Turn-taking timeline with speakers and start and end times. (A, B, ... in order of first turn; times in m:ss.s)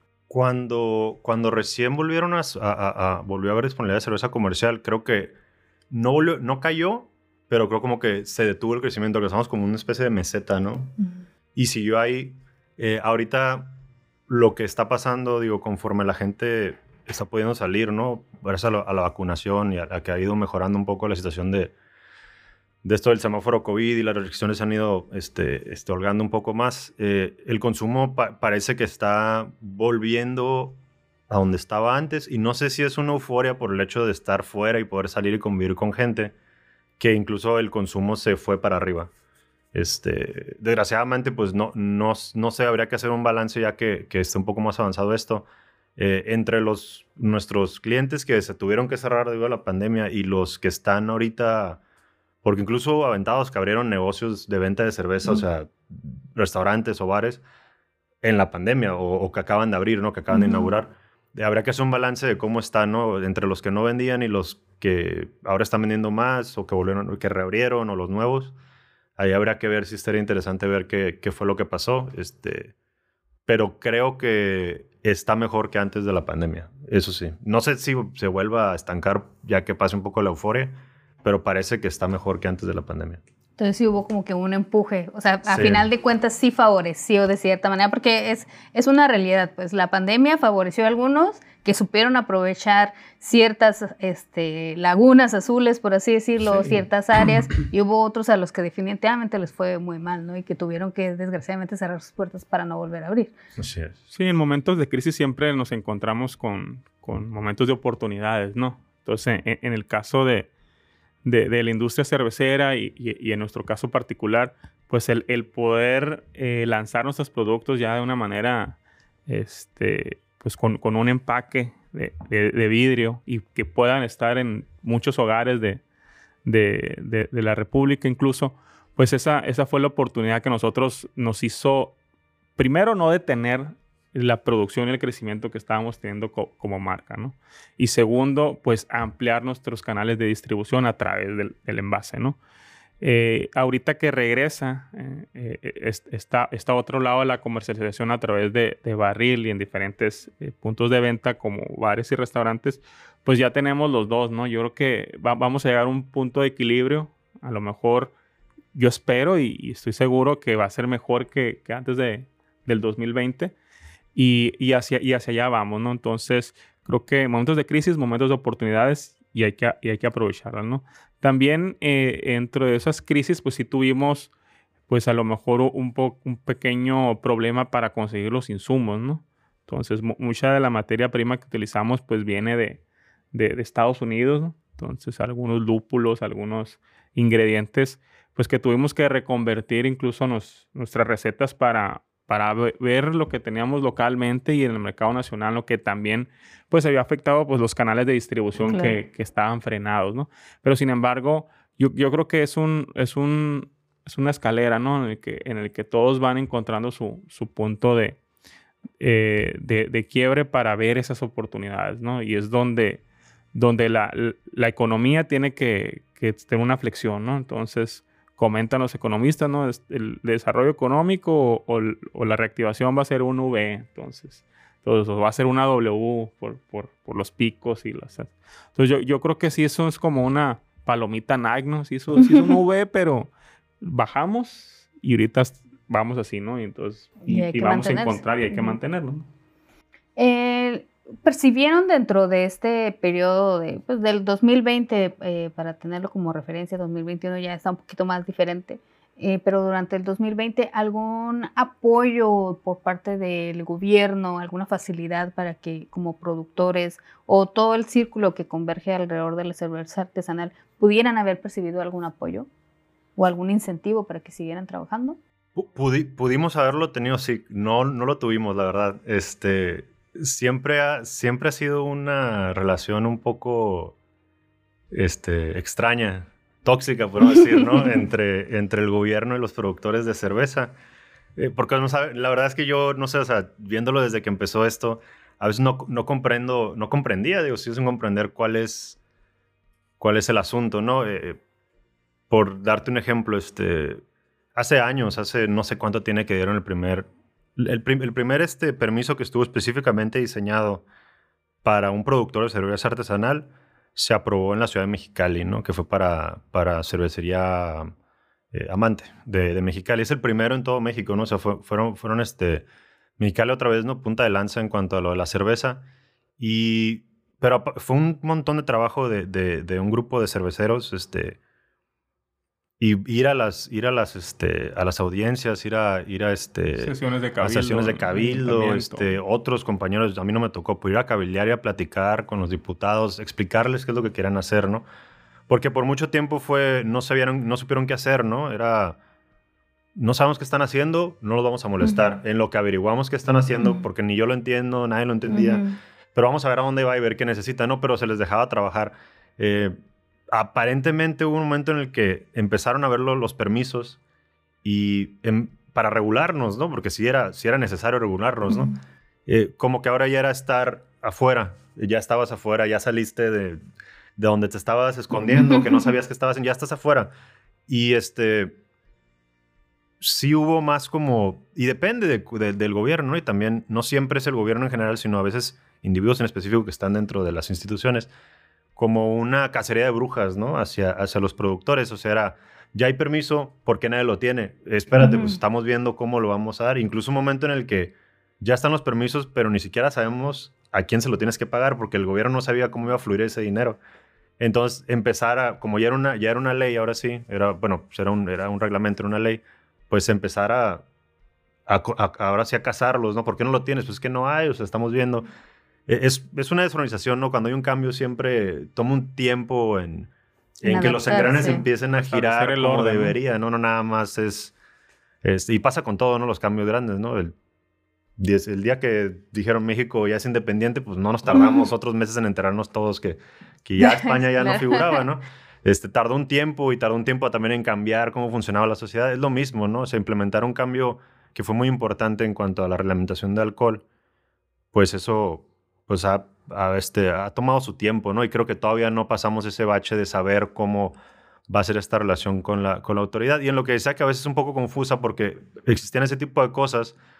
0:00.3-0:05.3 A
0:05.9-0:10.9 A
0:11.5-0:13.7 A
0:14.3-0:21.7 A
0:22.8-0:36.3 A
0:37.0-0:39.1 A
0:39.7-0:51.8 A
0:52.4-0:57.4 A
0:58.2-1:08.5 A
1:00.3-1:00.7 B
1:09.2-1:12.7 A
1:13.5-1:23.2 A
1:23.6-1:43.3 B
1:25.5-1:25.9 A
1:43.6-1:44.0 A
1:44.1-1:50.5 C
1:51.2-2:05.8 C
2:06.4-2:12.0 C
2:12.6-2:22.4 C
2:23.0-2:38.1 C
2:38.7-2:43.5 C
2:44.1-2:54.3 C
2:54.9-3:02.8 C
3:03.3-3:28.2 C
3:18.6-3:19.0 B
3:29.0-3:33.0 C
3:33.5-3:53.3 C
3:53.8-3:59.3 C
3:57.3-3:58.8 B
4:00.2-4:22.5 B
4:23.2-4:25.2 B
4:25.6-4:34.0 A
4:34.9-4:40.7 A
4:41.4-4:49.0 A
4:50.0-4:51.4 A
4:52.3-4:54.0 A
4:54.5-5:00.8 A
5:01.6-5:07.9 A
5:08.5-5:12.7 A
5:13.2-5:15.8 A
5:16.4-5:21.4 A
5:22.8-5:34.8 A
5:26.8-5:29.1 C
5:35.5-5:39.0 A
5:40.0-5:45.6 A
5:45.3-5:45.8 B
5:46.1-5:49.8 A
5:50.3-5:54.0 A
5:54.6-5:58.7 A
5:58.5-5:58.8 B
5:59.3-6:03.6 A
6:04.2-6:07.1 A
6:05.3-6:05.9 B
6:07.7-6:08.6 A
6:10.0-6:18.1 A
6:18.8-6:33.8 A
6:25.0-6:25.4 B
6:34.4-6:40.8 A
6:41.7-6:45.2 A
6:45.9-6:50.1 A
6:50.6-6:54.5 A
6:50.6-6:51.6 B
6:52.0-6:53.2 C
6:55.2-6:57.4 A
6:58.2-7:13.8 A
7:01.3-7:01.6 B
7:03.8-7:05.0 B
7:14.7-7:21.0 A
7:21.5-7:27.0 A